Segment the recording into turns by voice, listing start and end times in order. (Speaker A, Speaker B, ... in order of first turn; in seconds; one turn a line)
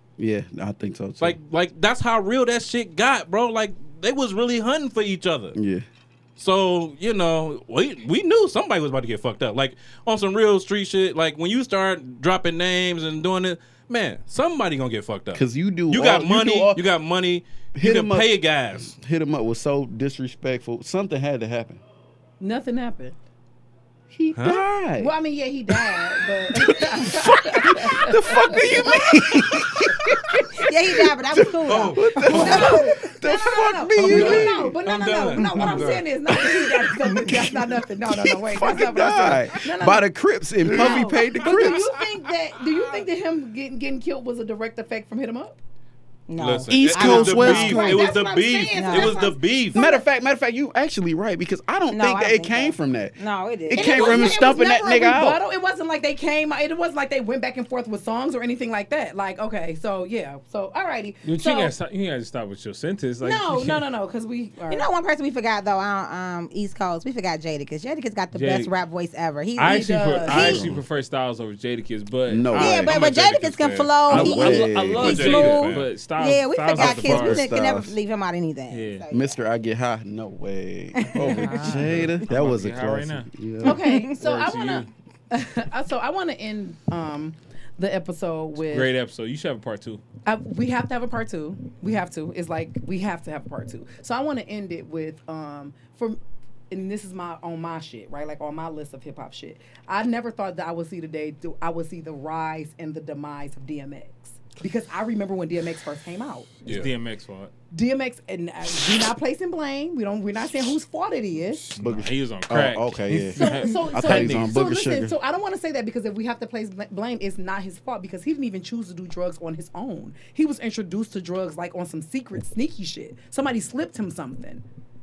Speaker A: 0.2-1.4
Speaker B: 1.2-5.6
Speaker A: 5.5-5.8
Speaker B: 6.4-18.9
Speaker A: 15.3-16.9
Speaker A: 17.8-21.8
Speaker C: 22.4-23.2
Speaker A: 24.1-25.1
Speaker B: 24.4-24.6
Speaker C: 25.0-30.3
Speaker A: 25.7-34.8
Speaker D: 30.6-33.0
Speaker B: 31.7-32.6
Speaker C: 32.3-40.0
Speaker B: 34.0-36.1
Speaker A: 35.4-41.9
Speaker B: 40.6-43.0
Speaker C: 40.7-45.6
Speaker D: 46.3-49.4
Speaker B: 46.4-49.8
Speaker A: 46.7-48.1
Speaker C: 47.7-50.0
Speaker A: 49.7-55.4
Speaker D: 51.9-54.4
Speaker C: 53.7-61.7
Speaker E: 61.2-63.9
Speaker C: 63.2-64.8
Speaker D: 64.7-70.7
Speaker E: 68.3-68.7
Speaker E: 69.6-73.0
Speaker C: 69.7-70.5
Speaker A: 70.3-70.8
Speaker A: 72.3-72.9
Speaker D: 72.5-79.3
Speaker B: 72.7-75.9
Speaker A: 74.1-75.2
Speaker E: 74.1-77.5
Speaker A: 76.8-78.0
Speaker E: 78.7-79.1
Speaker A: 79.1-84.9
Speaker D: 81.0-81.8
Speaker E: 81.2-83.3
Speaker C: 83.6-88.9
Speaker D: 83.7-84.1
Speaker E: 88.6-90.0
Speaker C: 90.2-96.2
Speaker C: 96.7-106.5
Speaker E: 106.6-107.5
Speaker C: 107.7-111.8
Speaker E: 111.7-114.6
Speaker A: 111.8-115.2
Speaker C: 113.4-124.6